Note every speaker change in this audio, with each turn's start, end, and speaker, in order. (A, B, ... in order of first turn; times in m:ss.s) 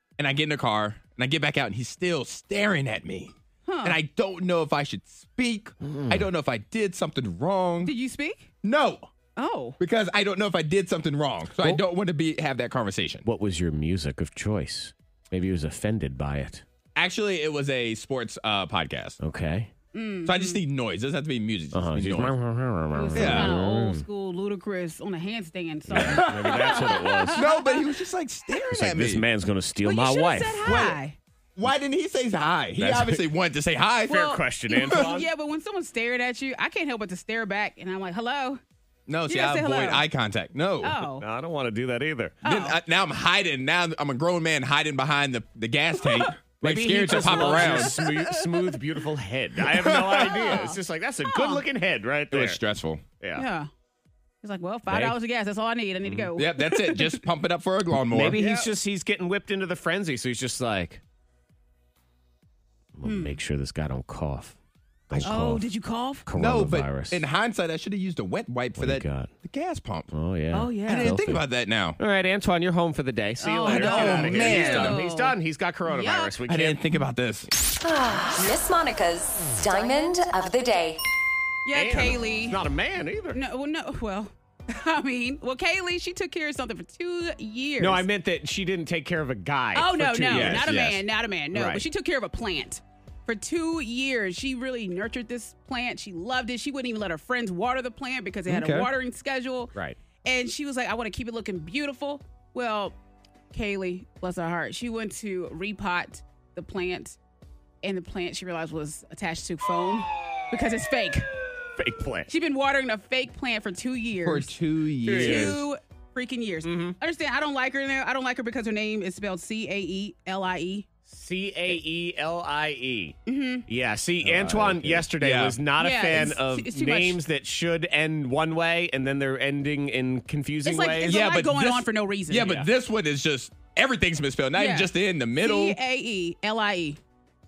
0:00.2-0:07.9 A
0:03.7-0:04.0 B
0:05.8-0:06.3 C
0:07.8-0:08.5 B
0:08.6-0:09.1 A
0:09.4-0:09.8 B
0:09.8-0:13.2 A
0:13.2-0:16.6 C
0:17.0-0:19.2 A
0:19.2-0:19.7 C
0:19.9-0:20.6 B
0:20.2-0:22.3 A
0:21.7-0:24.0 C
0:22.9-0:27.9 B
0:23.1-0:23.6 A
0:25.9-0:27.4 C
0:26.0-0:29.2 A
0:28.7-0:30.6 C
0:29.8-0:31.2 B
0:30.6-0:31.0 A
0:31.6-0:35.0 A
0:32.8-0:33.3 C
0:34.1-0:35.3 C
0:34.1-0:38.6 B
0:39.1-0:41.0 A
0:39.3-0:40.0 B
0:40.8-0:41.2 B
0:41.2-0:42.4 C
0:42.4-0:48.0 A
0:42.4-0:42.8 B
0:46.6-0:52.6 C
0:47.2-0:48.1 B
0:49.7-0:50.3 A
0:50.2-0:51.6 B
0:52.3-0:53.0 A
0:53.2-0:53.4 C
0:53.4-0:53.7 B
0:54.4-0:57.2 B
0:54.9-0:55.1 C
0:56.0-0:56.3 C
0:56.3-0:58.4 A
0:58.1-1:01.0 C
0:58.4-0:58.7 B
1:03.0-1:04.6 C
1:03.0-1:03.4 B
1:05.1-1:05.7 C
1:05.2-1:06.2 B
1:06.2-1:07.2 C
1:06.4-1:10.1 A
1:08.8-1:09.3 C
1:10.1-1:11.4 C
1:10.5-1:11.2 B
1:10.8-1:12.0 A
1:12.0-1:16.8 C
1:13.4-1:16.3 B
1:13.6-1:15.0 A
1:16.5-1:17.5 A
1:17.8-1:21.0 D
1:21.6-1:22.6 B
1:21.7-1:23.4 C
1:23.3-1:28.0 B
1:27.8-1:31.0 C
1:29.7-1:39.7 B
1:30.3-1:31.0 A
1:31.5-1:31.8 C
1:38.5-1:38.9 A
1:40.2-1:42.9 B
1:43.5-1:47.2 B
1:47.8-1:51.3 B
1:51.8-1:52.3 C
1:52.3-1:54.5 B
1:54.2-1:55.6 A
1:55.1-1:55.6 C
1:55.1-2:00.9 B
1:56.6-1:57.0 C
2:01.1-2:11.2 C
2:03.3-2:03.6 B
2:04.2-2:05.6 A
2:05.8-2:07.2 B
2:10.6-2:12.6 B
2:11.0-2:15.8 A
2:12.4-2:12.7 C
2:14.6-2:17.0 B